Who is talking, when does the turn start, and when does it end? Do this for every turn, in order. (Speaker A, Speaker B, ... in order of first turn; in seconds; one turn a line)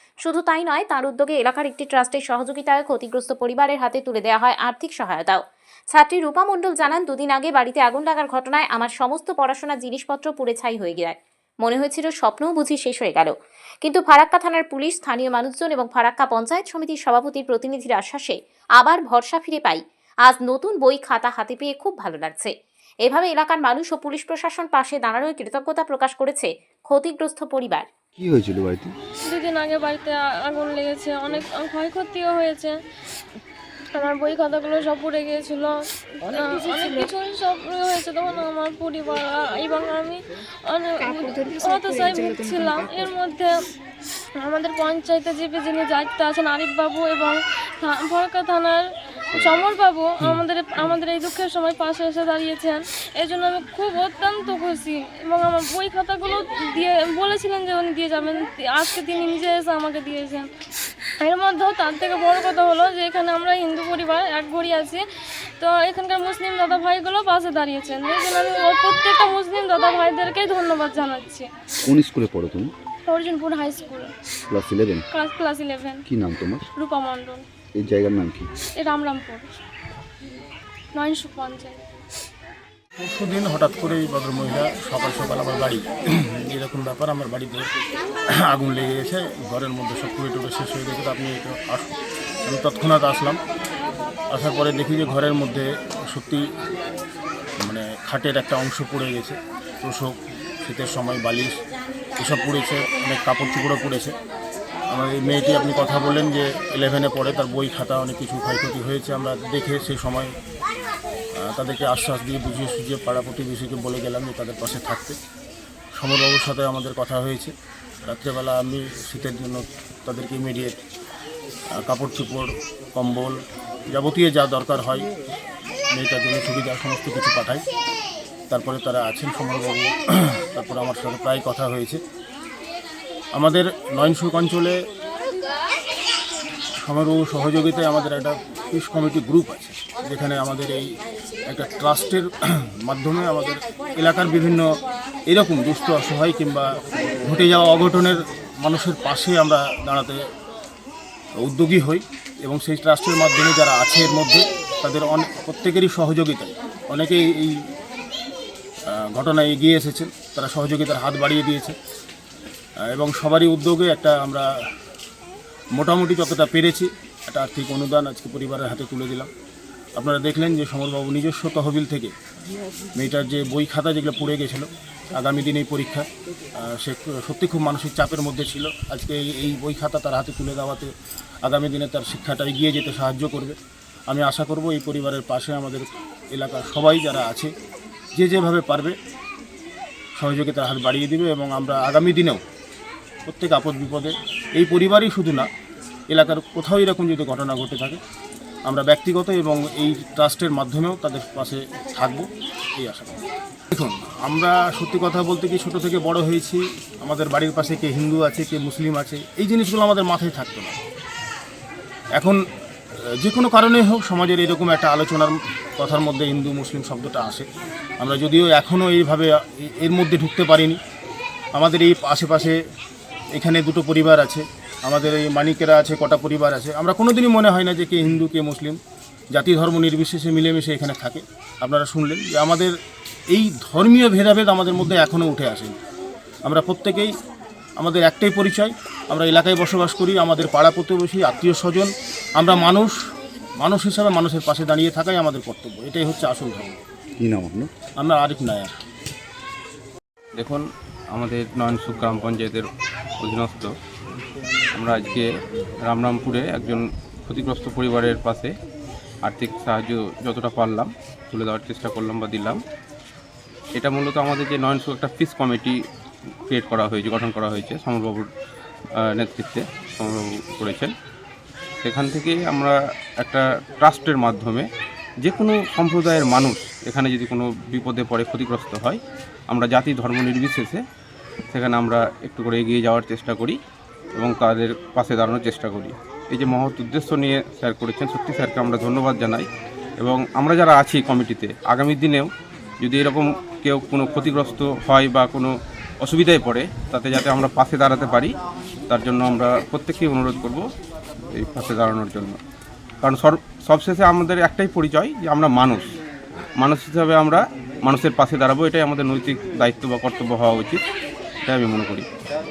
Speaker A: 0.2-5.4
Speaker A: 5.9-22.5
Speaker A: 23.0-27.9
Speaker B: 28.2-28.9
Speaker C: 29.3-32.7
Speaker C: 34.0-43.5
Speaker C: 44.4-60.5
Speaker C: 61.2-65.0
Speaker C: 65.6-71.5
Speaker B: 71.8-72.7
Speaker C: 73.1-74.1
Speaker B: 74.5-75.1
Speaker C: 75.1-76.0
Speaker B: 76.1-76.7
Speaker C: 76.8-77.5
Speaker B: 77.8-78.5
Speaker C: 78.8-79.6
Speaker C: 81.0-81.8
Speaker D: 83.0-87.7
Speaker D: 88.4-91.9
Speaker D: 92.5-93.4
Speaker D: 94.3-96.5
Speaker D: 97.6-100.1
Speaker D: 100.7-101.6
Speaker D: 102.2-104.2
Speaker D: 104.9-110.3
Speaker D: 111.4-115.2
Speaker D: 116.0-117.5
Speaker D: 118.1-120.8
Speaker D: 121.8-123.4
Speaker D: 123.9-125.1
Speaker D: 125.9-127.6
Speaker D: 128.5-132.0
Speaker D: 133.3-134.8
Speaker D: 136.8-140.9
Speaker D: 141.5-144.7
Speaker D: 145.3-150.2
Speaker D: 151.4-157.6
Speaker D: 158.9-161.8
Speaker D: 162.9-164.5
Speaker D: 165.8-169.3
Speaker D: 170.0-172.1
Speaker D: 172.9-176.1
Speaker D: 176.6-180.9
Speaker D: 181.4-183.6
Speaker D: 184.1-187.5
Speaker D: 188.2-189.0
Speaker D: 190.2-192.4
Speaker D: 193.3-195.5
Speaker D: 196.1-198.0
Speaker D: 198.7-203.2
Speaker D: 203.7-210.8
Speaker D: 213.2-217.5
Speaker D: 218.0-220.8
Speaker D: 221.6-222.6
Speaker D: 223.4-228.8
Speaker D: 229.3-232.8
Speaker D: 233.3-235.8
Speaker D: 236.5-237.1
Speaker D: 237.8-243.0
Speaker D: 243.6-246.8
Speaker B: 247.2-247.7
Speaker D: 248.0-248.7
Speaker E: 250.4-252.7
Speaker E: 253.2-253.7
Speaker E: 254.8-255.3
Speaker E: 255.8-258.5
Speaker E: 259.2-262.6
Speaker E: 263.8-265.8
Speaker E: 266.5-268.3
Speaker E: 269.0-270.9
Speaker E: 271.8-274.7
Speaker E: 275.2-279.0
Speaker E: 279.5-280.8
Speaker E: 281.5-283.6
Speaker E: 284.2-289.5
Speaker E: 290.0-292.3
Speaker E: 292.8-298.3
Speaker E: 298.9-300.6
Speaker E: 301.4-302.4
Speaker E: 303.0-305.9
Speaker E: 306.6-310.8
Speaker E: 311.5-312.1